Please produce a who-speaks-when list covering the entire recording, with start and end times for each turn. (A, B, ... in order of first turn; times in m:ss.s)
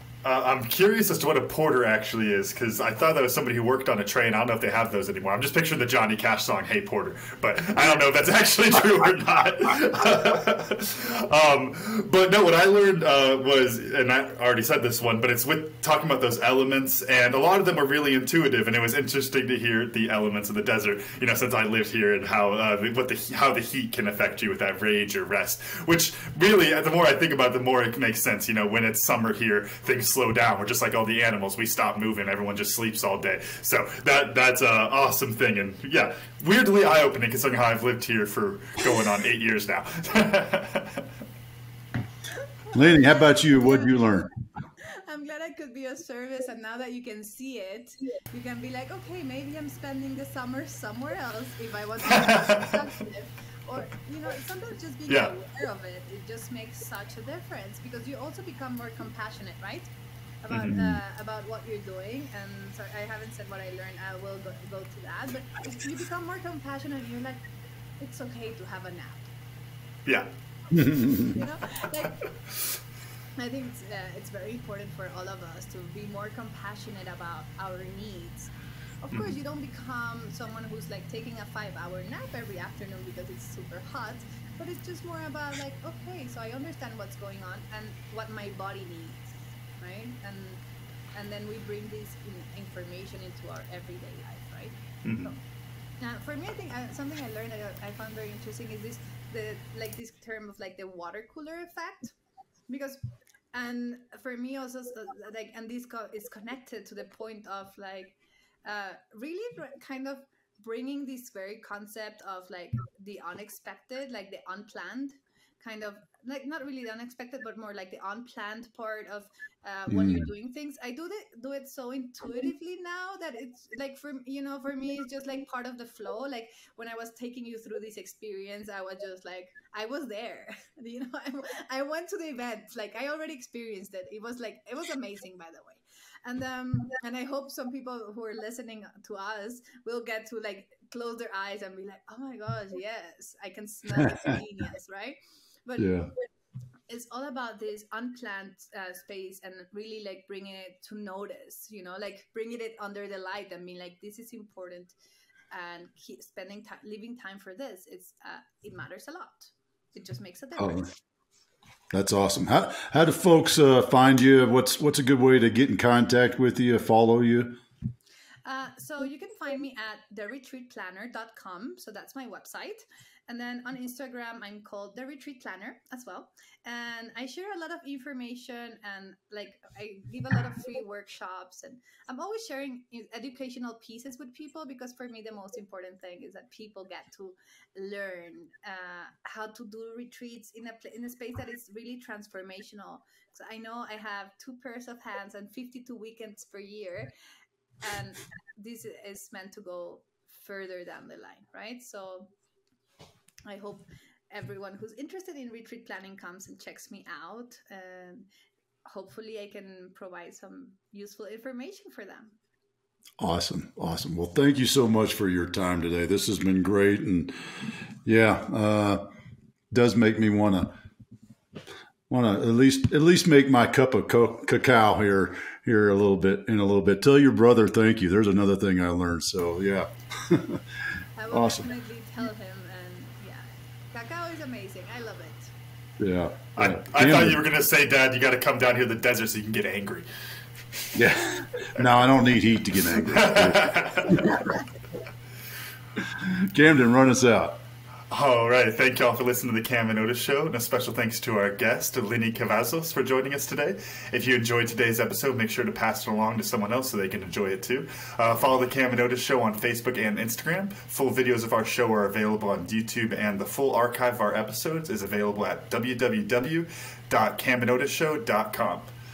0:00.2-0:41.0 A
0:42.7-0:44.2 B
0:42.7-0:44.3 C
0:44.8-0:59.9 B
0:52.1-0:52.8 A
1:00.4-1:07.4 B
1:00.5-1:00.8 A
1:08.0-1:09.3 B
1:10.0-1:10.3 A
1:10.7-1:11.3 C
1:10.8-1:12.2 B
1:13.4-1:30.6 B
1:31.1-1:35.4 B
1:35.0-1:35.3 A
1:36.0-1:42.1 B
1:42.7-1:43.0 B
1:43.5-2:26.1 B
1:59.9-2:00.3 C
2:25.8-2:26.1 C
2:26.9-2:34.9 B
2:35.5-2:41.0 B
2:40.6-2:40.9 C
2:41.9-2:47.6 C
2:48.4-3:17.1 B
3:17.8-3:22.3 B
3:23.4-3:28.3 B
3:28.8-3:32.4 B
3:33.2-3:39.1 C
3:39.7-3:40.8 C
3:42.1-3:50.6 C
3:51.2-3:55.5 B
3:51.3-3:51.7 C
3:56.0-3:57.4 C
3:56.6-4:00.0 A
4:00.9-4:04.3 C
4:03.0-4:04.4 A
4:06.0-4:07.6 C
4:08.1-4:28.9 A